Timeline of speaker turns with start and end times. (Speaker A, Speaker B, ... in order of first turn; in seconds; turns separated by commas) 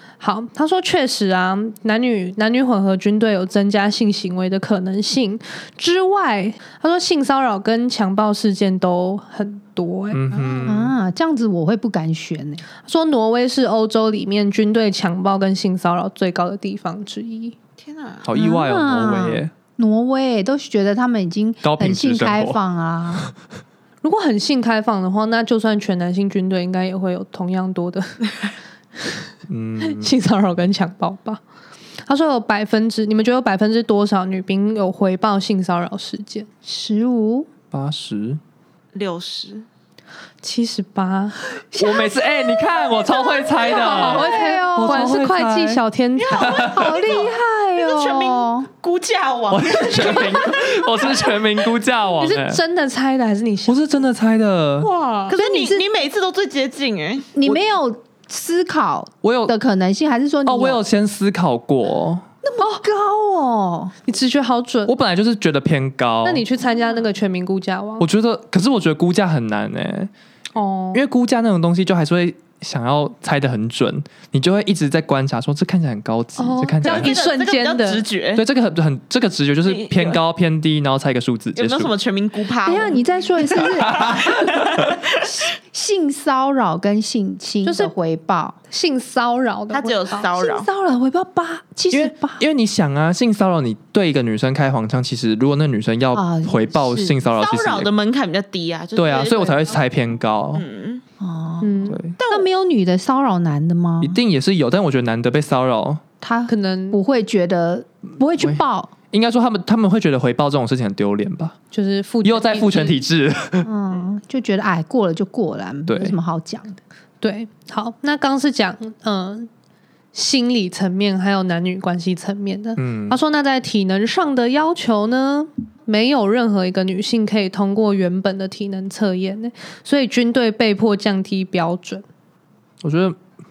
Speaker A: 0.2-10.2, Speaker B: 10.1-10.9, Speaker C: 10.3-10.8, Speaker D: 10.7-12.6, Speaker A: 12.8-17.6, Speaker C: 17.8-18.3, Speaker B: 18.2-19.5, Speaker D: 18.3-23.3, Speaker B: 21.6-22.6, Speaker A: 24.0-28.2, Speaker B: 29.5-30.1, Speaker A: 29.8-31.4, Speaker A: 32.1-36.5, Speaker D: 36.6-37.5, Speaker B: 37.7-38.4, Speaker C: 38.9-39.7, Speaker A: 40.4-41.4, Speaker D: 41.8-42.0, Speaker B: 41.8-45.8, Speaker C: 43.4-44.0, Speaker A: 43.7-46.6, Speaker D: 43.7-45.2, Speaker C: 46.2-51.7, Speaker B: 46.4-46.9, Speaker D: 46.4-48.7, Speaker B: 49.5-52.6, Speaker A: 52.2-53.8, Speaker B: 53.7-54.9, Speaker C: 54.8-57.5, Speaker D: 55.3-55.9, Speaker D: 57.4-60.8, Speaker B: 59.2-59.5, Speaker B: 60.5-62.2, Speaker D: 62.4-63.9, Speaker A: 62.6-62.9, Speaker A: 64.1-64.9, Speaker B: 64.9-66.4, Speaker A: 66.2-68.0, Speaker B: 68.0-70.1, Speaker A: 70.5-71.0, Speaker B: 70.9-77.1, Speaker A: 76.4-78.0, Speaker C: 76.8-78.4, Speaker B: 78.4-81.9, Speaker C: 79.6-80.2, Speaker C: 81.5-83.0, Speaker D: 82.6-84.4, Speaker C: 83.6-85.3, Speaker B: 83.7-84.9, Speaker D: 85.2-88.6, Speaker A: 87.7-87.9, Speaker A: 88.7-90.3, Speaker C: 89.7-90.7, Speaker D: 90.3-92.4, Speaker B: 91.9-97.9, Speaker D: 96.1-97.2, Speaker C: 97.3-99.8, Speaker B: 99.0-100.6, Speaker C: 100.5-101.0, Speaker D: 101.2-104.2, Speaker A: 101.6-102.0, Speaker B: 101.9-102.2, Speaker C: 102.2-102.5, Speaker B: 104.0-106.0, Speaker D: 106.2-108.9, Speaker A: 106.5-107.0, Speaker B: 108.4-111.5, Speaker A: 111.7-113.0, Speaker B: 112.2-113.7, Speaker D: 113.6-116.8, Speaker B: 115.9-116.2, Speaker A: 117.2-119.5, Speaker A: 120.1-132.0, Speaker B: 122.8-123.2, Speaker B: 132.8-133.2